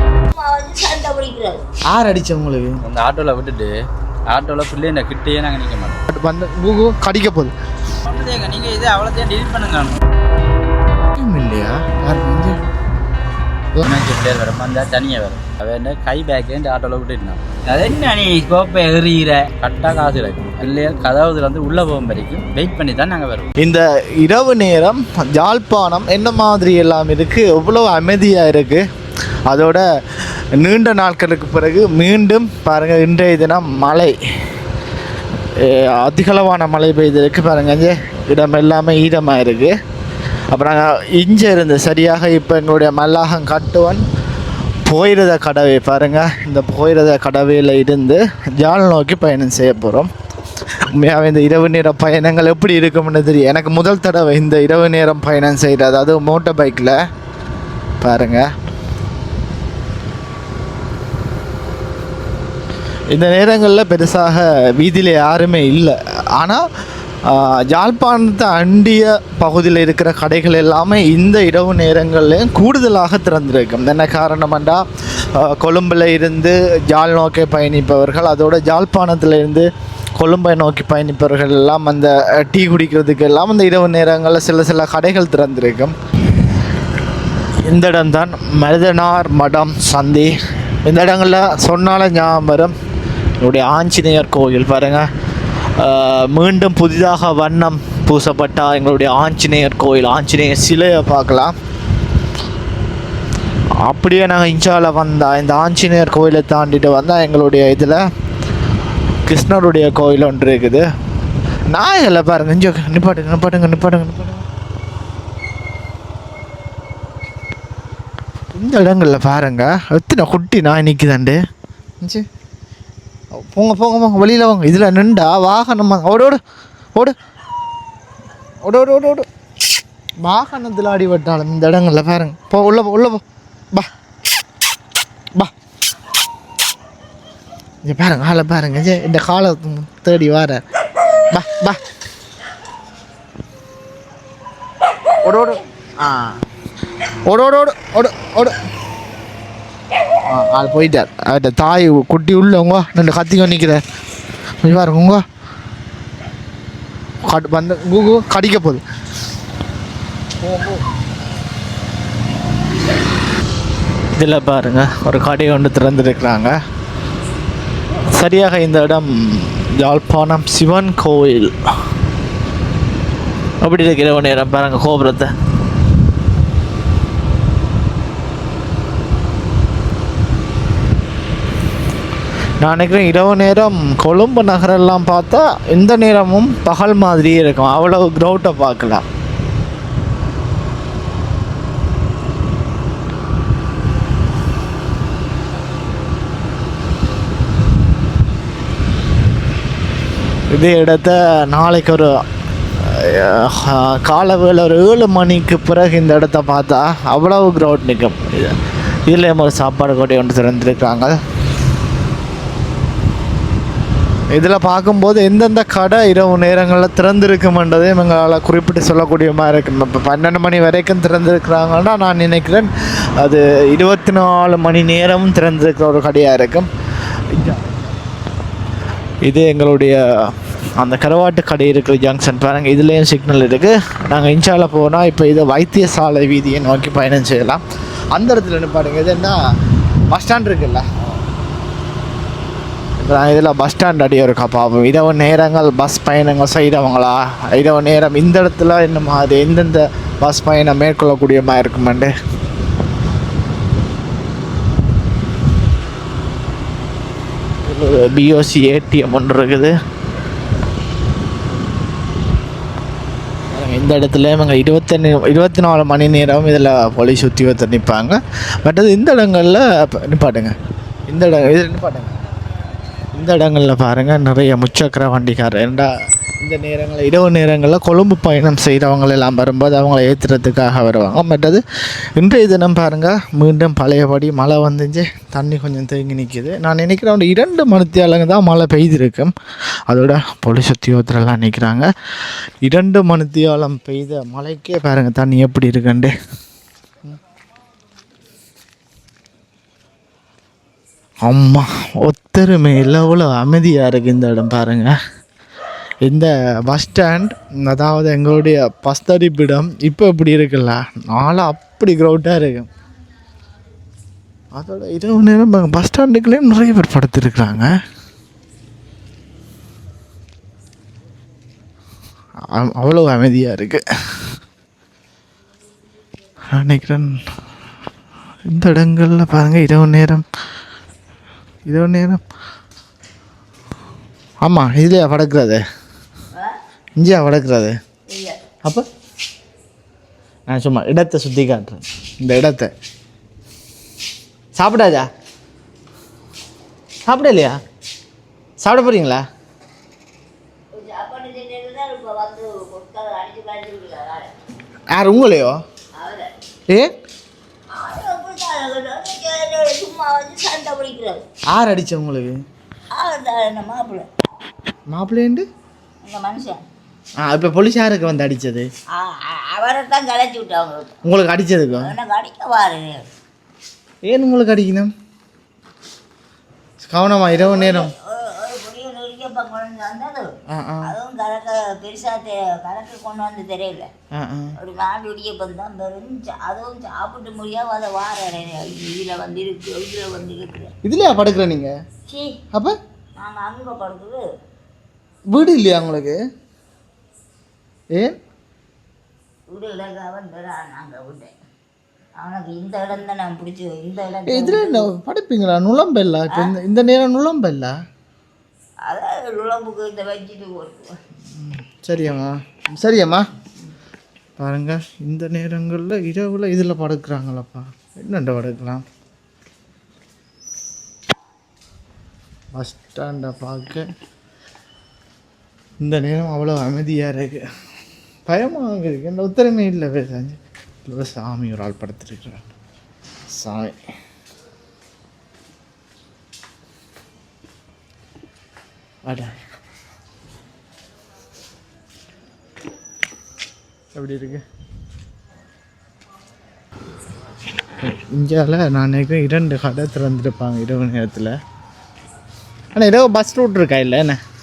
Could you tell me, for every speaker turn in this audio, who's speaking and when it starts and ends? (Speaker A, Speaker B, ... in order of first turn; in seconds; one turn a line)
Speaker A: 0.3-1.6
Speaker B: 1.9-2.8
Speaker C: 2.8-3.7
Speaker C: 4.3-6.0
Speaker B: 6.1-7.5
Speaker C: 8.0-10.0
Speaker B: 11.2-12.6
Speaker C: 13.8-23.5
Speaker B: 23.6-28.8
Speaker B: 29.5-29.8
Speaker B: 30.5-34.2
Speaker B: 35.5-39.7
Speaker B: 40.5-44.0
Speaker B: 44.8-50.1
Speaker B: 50.9-57.0
Speaker B: 58.0-58.5
Speaker B: 63.1-66.6
Speaker B: 67.2-85.9
Speaker B: 87.6-92.7
Speaker B: 93.4-95.1
Speaker B: 95.8-101.5
Speaker B: 103.8-108.0
Speaker B: 109.2-110.8
Speaker B: 111.7-114.5
Speaker B: 118.5-121.4
Speaker B: 123.4-126.4
Speaker B: 128.6-129.3
Speaker B: 130.2-133.9
Speaker B: 137.8-140.6
Speaker B: 141.3-141.8
Speaker B: 145.2-146.4
Speaker B: 147.3-148.6
Speaker B: 150.3-153.8
Speaker B: 154.6-155.2
Speaker B: 157.2-158.8
Speaker B: 164.2-166.5
Speaker B: 168.1-171.5
Speaker B: 173.6-175.3
Speaker B: 182.6-189.0
Speaker B: 200.5-202.2
Speaker B: 202.8-208.6
Speaker B: 209.1-211.2
Speaker B: 214.3-226.7
Speaker B: 227.3-227.8
Speaker B: 229.2-239.3
Speaker B: 240.1-240.9
Speaker B: 243.0-252.1
Speaker B: 257.6-259.7
Speaker B: 263.5-270.5
Speaker B: 271.1-272.1
Speaker B: 273.1-275.9
Speaker B: 276.4-281.6
Speaker B: 282.1-289.3
Speaker B: 289.9-291.9
Speaker B: 292.6-296.1
Speaker B: 301.2-304.9
Speaker B: 306.0-312.7
Speaker B: 314.5-317.7
Speaker B: 322.5-323.8
Speaker B: 326.5-327.2
Speaker B: 328.5-330.2
Speaker B: 331.6-332.2
Speaker B: 334.4-335.6
Speaker A: 336.3-336.6
Speaker B: 337.0-337.8
Speaker A: 338.1-338.4
Speaker B: 340.5-342.7
Speaker B: 344.5-345.1
Speaker B: 347.1-347.6
Speaker B: 348.6-349.2
Speaker A: 350.7-354.3
Speaker B: 354.9-355.6
Speaker A: 355.9-356.3
Speaker A: 357.7-361.2
Speaker B: 361.5-362.4
Speaker A: 362.9-364.1
Speaker B: 364.9-365.5
Speaker A: 366.0-366.6
Speaker B: 367.2-368.7
Speaker A: 368.9-370.9
Speaker B: 371.0-371.9
Speaker A: 371.8-373.1
Speaker B: 374.1-374.9
Speaker B: 376.8-377.9
Speaker A: 377.3-383.9
Speaker B: 380.5-380.9
Speaker B: 384.1-384.5
Speaker A: 384.6-390.7
Speaker B: 390.8-391.7
Speaker A: 392.1-392.4
Speaker A: 393.2-394.3
Speaker B: 395.3-396.2
Speaker A: 399.5-401.3
Speaker A: 402.2-404.9
Speaker B: 404.3-407.7
Speaker A: 406.3-406.5
Speaker A: 408.9-410.9
Speaker B: 411.3-413.2
Speaker B: 414.4-418.8
Speaker B: 422.5-423.9
Speaker B: 425.8-427.4
Speaker B: 428.3-432.4
Speaker B: 433.3-433.8
Speaker B: 439.0-439.3
Speaker B: 443.9-444.4
Speaker B: 447.8-451.4
Speaker B: 452.7-454.2